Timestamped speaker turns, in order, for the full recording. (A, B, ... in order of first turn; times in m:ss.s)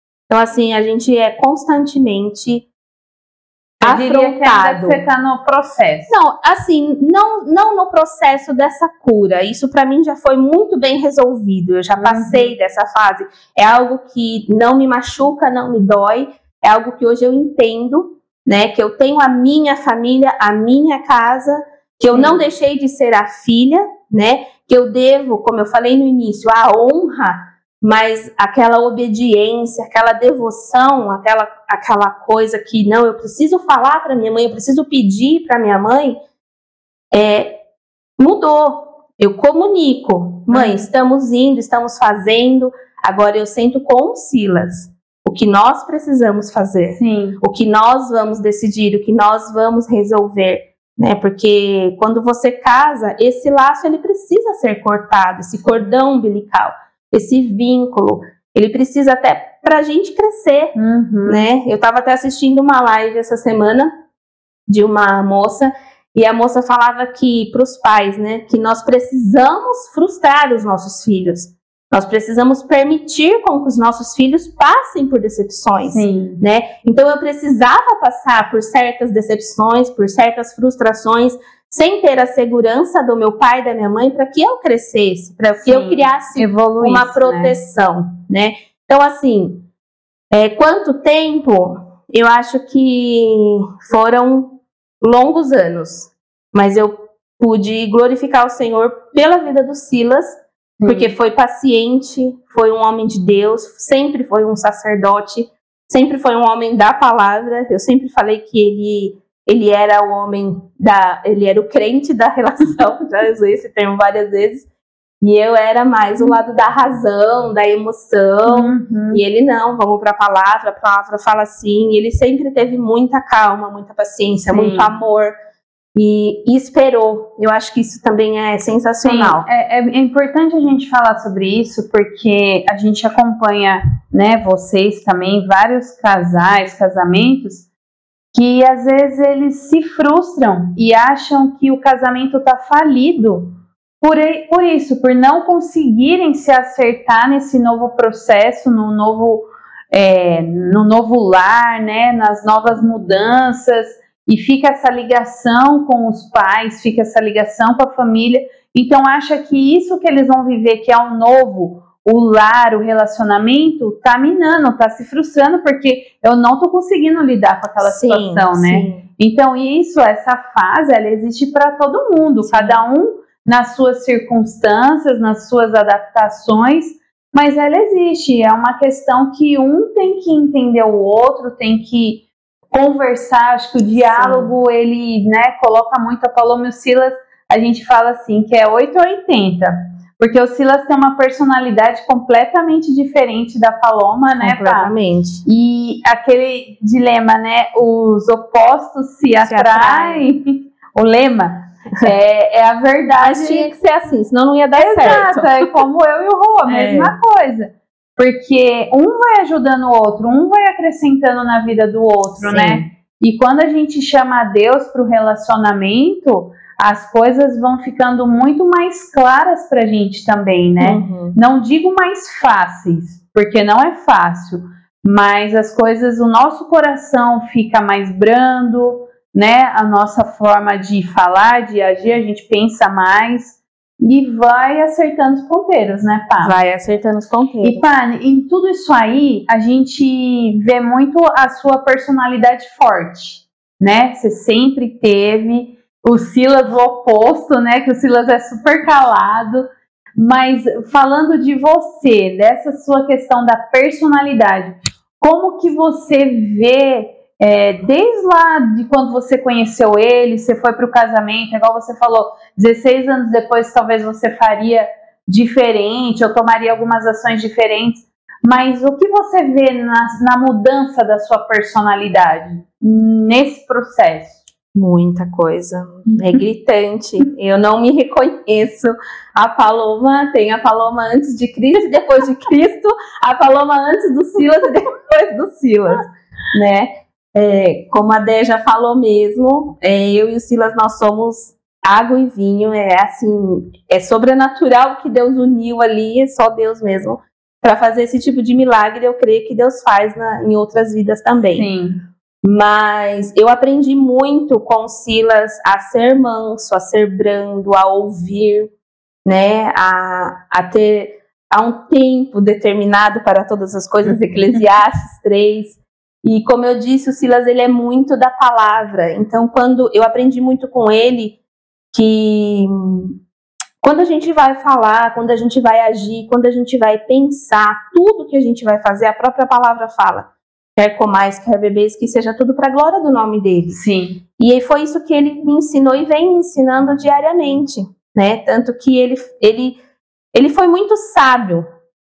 0:00.3-0:02.7 A
0:03.8-0:05.0 A
0:03.8-0:06.1 B
0:06.1-0:36.2 A
0:12.0-0:12.5 B
0:37.1-0:37.6 A
0:38.2-1:00.8 A
0:40.5-0:40.9 B
0:47.0-0:47.4 B
1:00.8-1:01.5 B
1:01.3-1:03.9 A
1:04.7-1:29.6 A
1:15.9-1:16.4 B
1:25.7-1:27.6 B
1:30.3-1:54.7 A
1:40.8-1:41.1 B
1:55.2-2:05.3 A
1:58.5-1:59.2 B
2:04.5-2:04.9 B
2:06.0-2:09.5 A
2:09.0-2:17.6 B
2:18.3-3:14.9 B
2:47.8-2:49.0 A
2:52.4-2:52.8 A
3:03.9-3:04.6 A
3:14.4-3:15.4 A
3:15.4-3:23.7 B
3:19.4-3:20.2 A
3:23.2-3:25.8 A
3:24.8-3:56.6 B
3:26.7-3:27.2 A
3:32.4-3:32.9 A
3:40.8-3:41.4 A
3:56.4-3:57.9 A
3:57.6-4:34.4 B
4:34.8-5:01.7 A
4:36.1-4:36.3 B
5:01.5-5:02.0 B
5:02.4-5:08.7 A
5:09.2-5:21.4 A
5:21.9-5:23.2 A
5:23.8-5:33.8 A
5:33.7-5:34.2 B
5:34.4-5:39.8 A
5:40.3-5:41.7 A